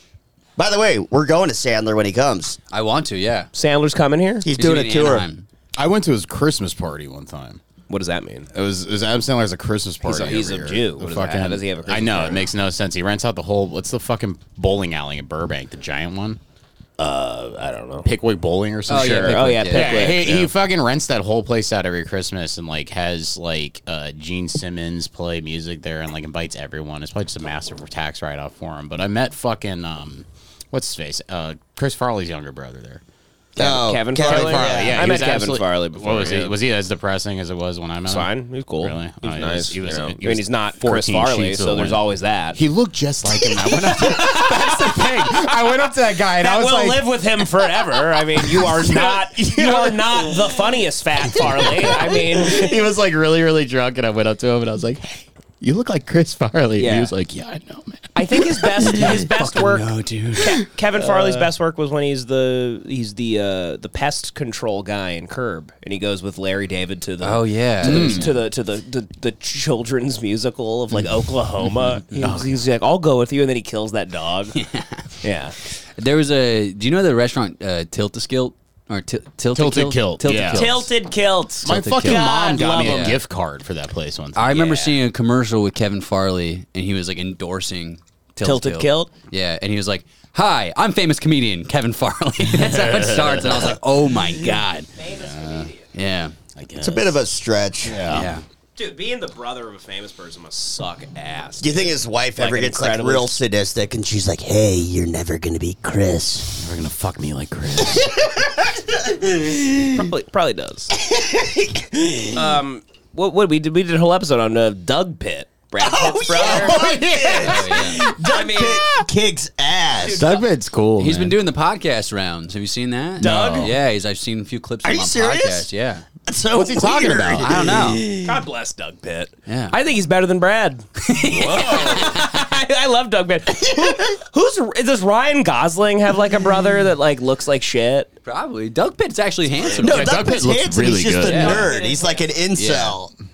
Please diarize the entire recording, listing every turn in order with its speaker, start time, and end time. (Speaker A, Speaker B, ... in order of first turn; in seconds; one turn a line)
Speaker A: 0.6-2.6
Speaker B: 2.7-3.5
Speaker C: 3.5-4.5
Speaker A: 4.4-5.3
Speaker B: 4.6-5.4
Speaker D: 5.8-7.6
Speaker C: 7.9-8.5
Speaker D: 8.5-16.4
Speaker C: 10.0-12.5
Speaker C: 17.0-18.1
Speaker D: 18.0-33.0
Speaker B: 18.9-20.4
Speaker C: 18.9-20.5
Speaker A: 33.6-35.2
Speaker C: 33.6-36.5
Speaker D: 34.2-42.0
Speaker C: 38.1-42.6
Speaker D: 42.5-47.6
Speaker C: 43.7-45.5
Speaker C: 46.4-52.8
Speaker D: 48.4-50.5
Speaker D: 51.4-58.8
Speaker C: 56.8-57.1
Speaker C: 58.1-74.6
Speaker B: 59.0-60.6
Speaker D: 61.0-61.5
Speaker B: 67.2-68.3
Speaker D: 67.8-68.3
Speaker D: 72.2-72.5
Speaker B: 74.5-75.0
Speaker C: 75.2-75.5
Speaker B: 76.0-80.9
Speaker D: 79.5-80.8
Speaker C: 80.5-83.1
Speaker B: 81.6-83.2
Speaker D: 81.6-84.6
Speaker B: 84.3-94.9
Speaker C: 84.5-85.0
Speaker C: 88.4-89.1
Speaker D: 92.5-93.7
Speaker C: 95.0-95.8
Speaker D: 95.1-95.7
Speaker B: 95.9-96.3
Speaker D: 96.5-97.1
Speaker A: 96.8-98.2
Speaker D: 97.8-98.3
Speaker B: 98.1-98.4
Speaker C: 98.8-103.3
Speaker A: 101.6-106.6
Speaker D: 106.6-108.3
Speaker C: 109.8-110.9
Speaker A: 111.1-112.3
Speaker C: 112.3-116.8
Speaker A: 115.8-120.2
Speaker D: 116.4-117.6
Speaker B: 117.4-118.0
Speaker C: 118.3-118.8
Speaker C: 120.0-120.5
Speaker D: 120.1-121.3
Speaker B: 121.0-126.0
Speaker C: 123.2-123.7
Speaker D: 123.2-123.7
Speaker A: 124.8-125.7
Speaker A: 126.2-128.3
Speaker D: 126.5-127.7
Speaker B: 127.4-128.0
Speaker C: 128.2-138.1
Speaker B: 129.5-129.7
Speaker B: 131.0-132.0
Speaker D: 131.3-132.0
Speaker B: 138.2-140.2
Speaker A: 139.7-143.1
Speaker D: 139.8-141.7
Speaker C: 141.2-142.3
Speaker B: 141.3-141.7
Speaker B: 142.5-142.9